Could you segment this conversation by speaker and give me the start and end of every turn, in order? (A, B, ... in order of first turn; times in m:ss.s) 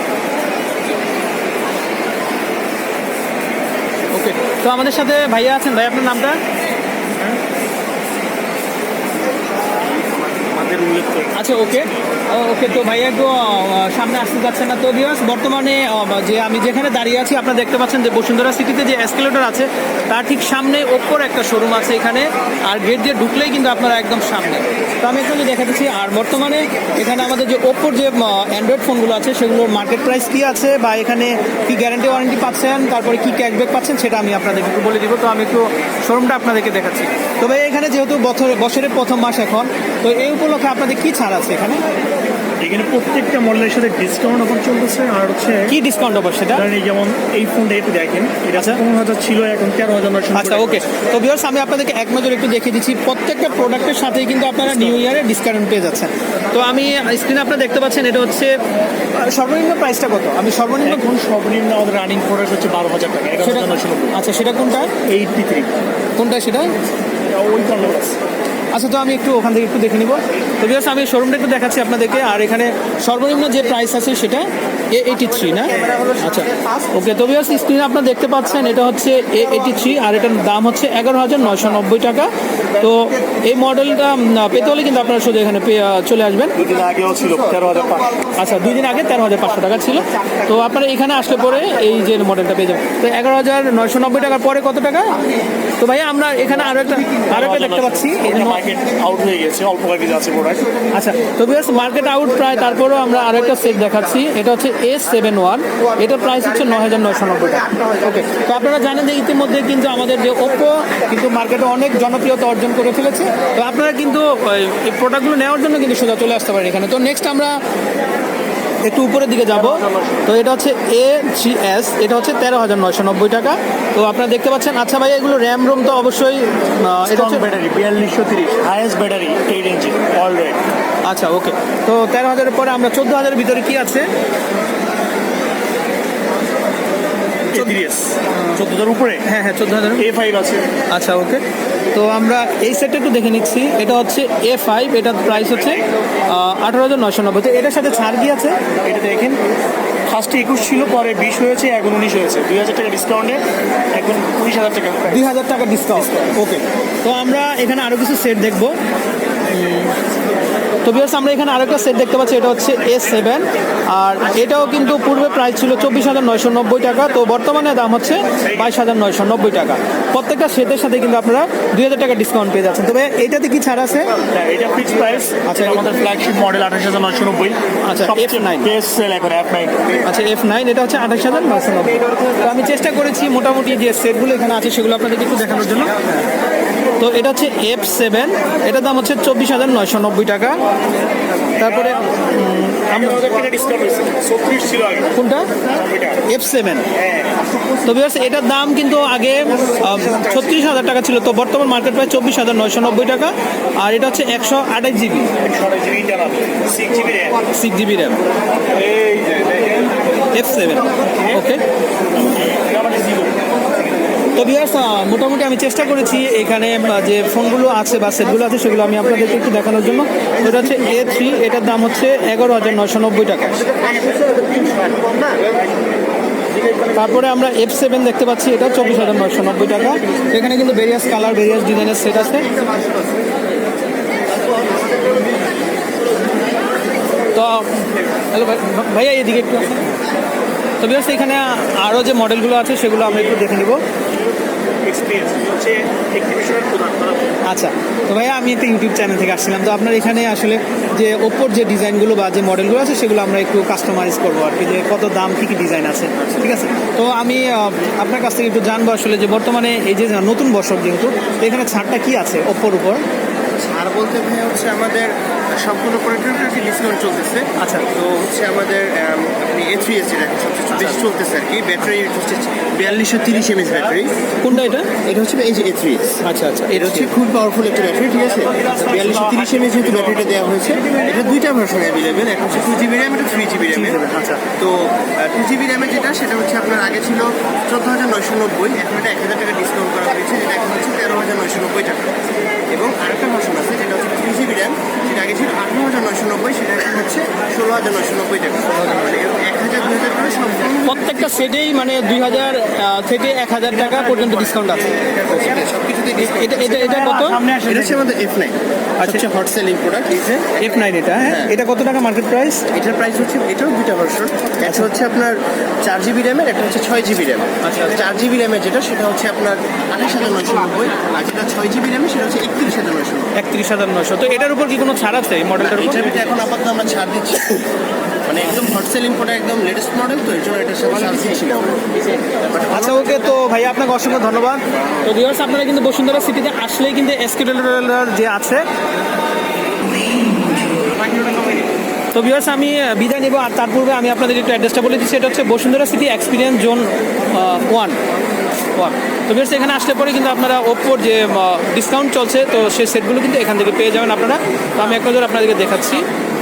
0:04.1-0:06.4 A
0:10.5-0:11.4 B
0:11.4-0:41.8 A
0:42.6-0:45.7 B
0:45.7-0:46.7 A
0:46.5-0:50.8 B
0:48.6-0:48.8 A
0:50.3-0:58.5 A
0:59.1-1:01.1 A
1:00.8-1:04.2 B
1:03.4-1:04.9 A
1:05.0-1:05.7 B
1:06.2-1:06.7 A
1:07.3-1:08.2 B
1:08.7-1:26.6 A
1:26.6-1:28.2 B
1:28.3-1:35.2 A
1:35.8-1:38.6 A
1:37.3-1:40.7 B
1:40.9-1:57.6 A
1:58.8-2:07.5 A
1:59.6-2:00.2 B
2:07.1-2:10.6 B
2:11.0-2:14.1 A
2:17.5-2:19.3 B
2:19.2-2:20.0 A
2:20.0-2:20.7 B
2:20.9-2:28.6 A
2:28.8-2:29.4 B
2:30.1-2:35.2 B
2:35.1-2:38.8 A
2:39.5-2:39.9 A
2:40.8-2:54.1 A
2:54.3-2:59.9 B
2:55.4-2:55.8 A
2:57.8-2:58.7 A
3:00.0-3:06.0 A
3:07.0-3:10.6 A
3:11.6-3:13.2 A
3:12.8-3:15.1 B
3:15.2-3:15.5 A
3:15.7-3:16.2 B
3:16.3-3:16.9 A
3:17.0-3:17.3 B
3:17.8-3:25.3 A
3:25.4-3:27.4 B
3:27.5-3:28.2 A
3:28.7-3:30.0 B
3:30.3-3:31.6 A
3:32.2-3:33.5 B
3:34.3-3:43.7 A
3:43.8-3:45.2 C
3:46.9-3:52.5 A
3:57.3-4:00.0 A
4:00.8-4:03.8 A
4:04.8-4:07.2 B
4:07.5-4:23.0 A
4:23.6-4:34.1 C
4:27.6-4:27.9 A
4:34.4-4:34.9 A
4:34.8-4:44.0 C
4:36.2-4:37.1 A
4:38.5-4:40.6 B
4:43.7-4:44.4 A
4:44.5-4:52.1 C
4:52.7-5:01.2 C
4:58.7-4:59.2 A
5:00.8-5:05.3 A
5:05.2-5:10.6 C
5:06.3-5:07.4 A
5:07.0-5:07.9 B
5:09.0-5:09.2 A
5:10.6-5:12.7 A
5:11.2-5:11.5 C
5:12.7-5:23.3 C
5:17.6-5:18.0 A
5:23.4-5:26.1 A
5:25.6-5:27.7 C
5:28.2-5:33.2 C
5:32.7-5:38.6 A
5:42.1-5:48.0 A
5:48.8-5:56.1 A